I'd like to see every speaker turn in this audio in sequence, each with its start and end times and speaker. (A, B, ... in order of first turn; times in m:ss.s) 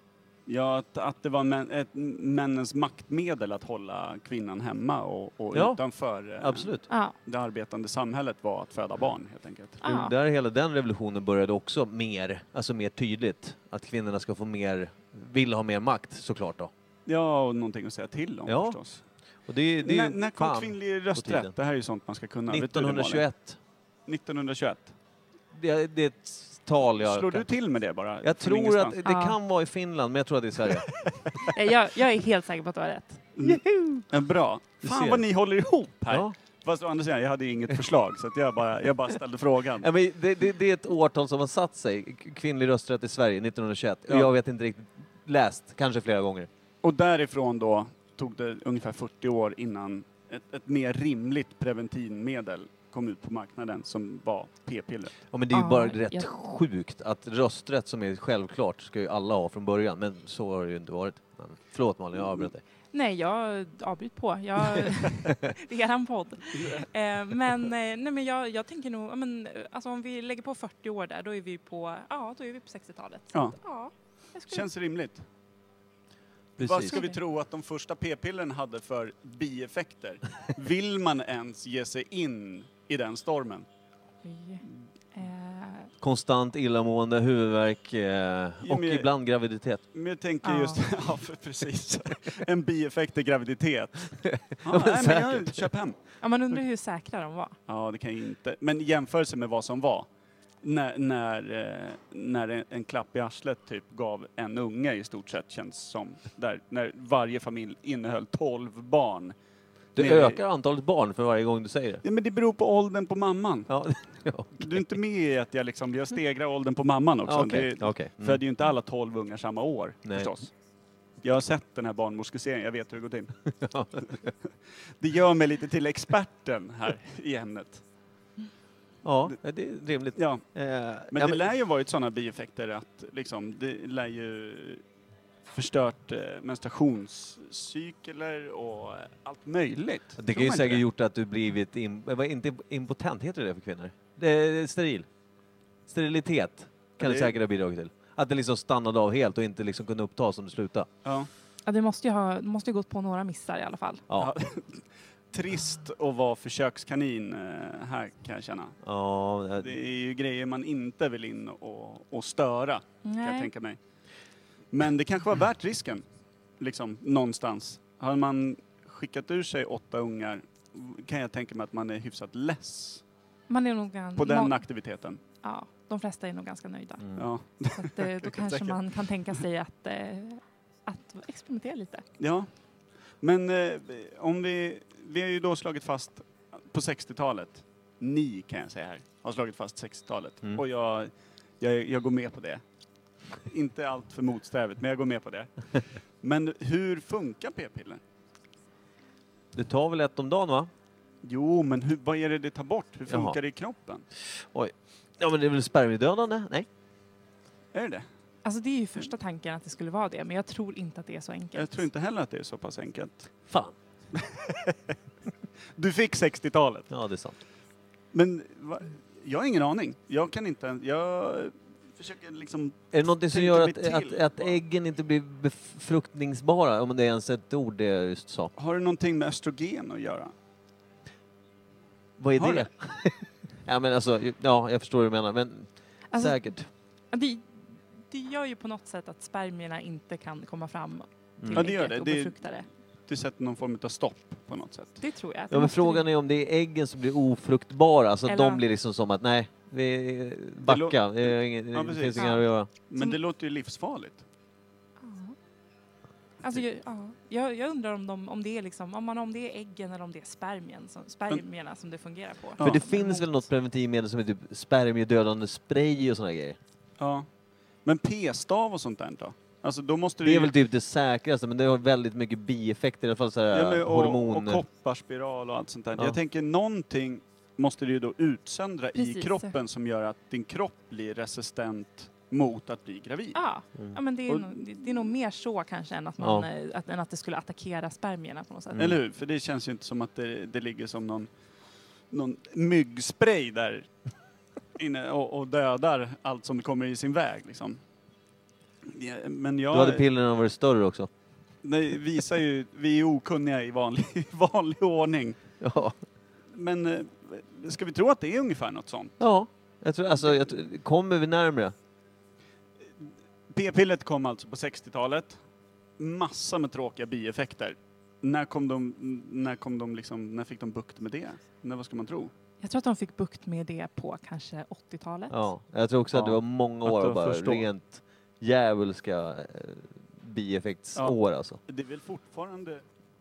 0:00.5-0:09.8 A
0:05.5-0:05.8 B
0:06.4-0:06.9 B
0:06.9-0:07.2 C
0:09.8-0:10.1 C
0:09.8-0:16.7 B
0:17.1-0:19.0 A
0:18.5-0:18.8 B
0:19.5-0:21.5 B
0:19.8-0:23.2 A
0:22.5-0:23.6 B
0:24.1-0:24.9 A
0:25.5-0:27.5 B
0:27.0-0:29.0 A
0:28.2-0:31.1 B
0:29.0-0:29.4 C
0:31.1-0:31.4 A
0:31.5-0:33.3 C
0:33.4-0:39.9 A
0:33.4-0:34.1 B
0:34.8-0:35.2 B
0:36.1-0:36.4 B
0:39.8-0:46.5 B
0:46.8-0:55.1 A
0:55.3-1:02.6 B
0:55.5-0:56.3 C
1:02.9-1:14.7 C
1:04.8-1:05.4 B
1:06.6-1:06.9 A
1:13.3-1:13.6 A
1:14.5-1:15.2 A
1:16.6-1:17.0 B
1:16.6-1:23.7 A
1:16.9-1:17.2 C
1:24.2-1:24.6 C
1:25.1-1:25.9 C
1:26.0-1:29.8 B
1:28.6-1:29.1 A
1:29.9-1:36.0 A
1:30.4-1:30.8 C
1:34.2-1:35.7 B
1:36.2-1:37.6 C
1:37.7-1:40.1 A
1:40.6-1:49.4 A
1:50.0-1:50.4 A
1:50.0-1:52.0 B
1:52.0-1:53.7 A
1:53.7-1:54.8 B
1:54.6-2:00.5 A
1:57.3-1:58.4 B
2:00.0-2:00.3 B
2:01.2-2:03.3 A
2:03.6-2:04.3 B
2:04.1-2:07.8 A
2:09.0-2:11.4 B
2:10.2-2:10.4 A
2:11.1-2:14.8 A
2:15.5-2:20.8 A
2:20.2-2:25.1 B
2:25.9-2:30.9 B
2:27.0-2:27.4 A
2:31.0-2:31.3 A
2:31.6-2:34.0 C
2:34.2-2:38.8 A
2:38.8-2:39.8 B
2:39.6-2:43.8 A
2:43.0-2:43.5 C
2:44.7-2:46.0 A
2:46.6-2:53.0 A
2:53.5-2:54.6 C
2:54.2-2:55.2 A
2:55.4-2:57.1 C
2:57.0-2:57.3 B
2:57.2-2:58.8 A
2:57.7-3:02.0 C
3:02.2-3:02.5 A
3:03.2-3:12.6 A
3:13.5-3:15.5 A
3:16.2-3:18.0 A
3:19.5-3:20.7 B
3:21.2-3:24.0 A
3:23.1-3:23.4 B
3:24.3-3:26.7 B
3:27.7-3:28.0 A
3:28.4-3:31.8 C
3:31.6-3:33.3 A
3:33.5-3:33.7 B
3:34.2-3:34.9 A
3:35.8-3:36.9 A
3:36.9-3:37.4 B
3:38.1-3:44.6 A
3:42.9-3:48.5 B
3:48.6-3:50.3 A
3:52.2-3:56.7 B
3:52.4-3:52.7 A
3:56.1-3:56.6 C
3:57.1-4:02.7 C
4:01.4-4:01.7 B
4:01.5-4:02.5 A
4:03.1-4:05.0 A
4:05.0-4:06.1 C
4:05.5-4:12.7 B
4:08.3-4:08.6 C
4:10.6-4:14.2 A
4:12.2-4:12.5 C
4:15.0-4:15.4 C
4:16.4-4:23.2 C
4:22.6-4:23.2 A
4:22.6-4:26.6 B
4:27.0-4:27.3 A
4:27.8-4:30.5 A
4:30.2-4:34.6 B
4:33.5-4:43.4 A
4:39.0-4:39.5 C
4:43.3-4:48.8 C
4:44.3-4:44.6 A
4:46.2-4:46.5 B
4:48.7-4:49.0 B
4:48.8-4:51.3 A
4:52.1-4:53.9 A
4:54.8-4:57.8 A
4:58.9-5:00.0 A
4:59.7-5:01.1 B
5:01.6-5:05.4 A
5:05.6-5:06.0 B
5:06.5-5:09.2 A
5:09.2-5:11.7 B
5:10.2-5:10.5 A
5:13.0-5:15.4 A
5:16.0-5:22.3 A
5:22.6-5:25.5 C
5:25.3-5:31.6 B
5:26.1-5:27.7 A
5:31.0-5:32.8 A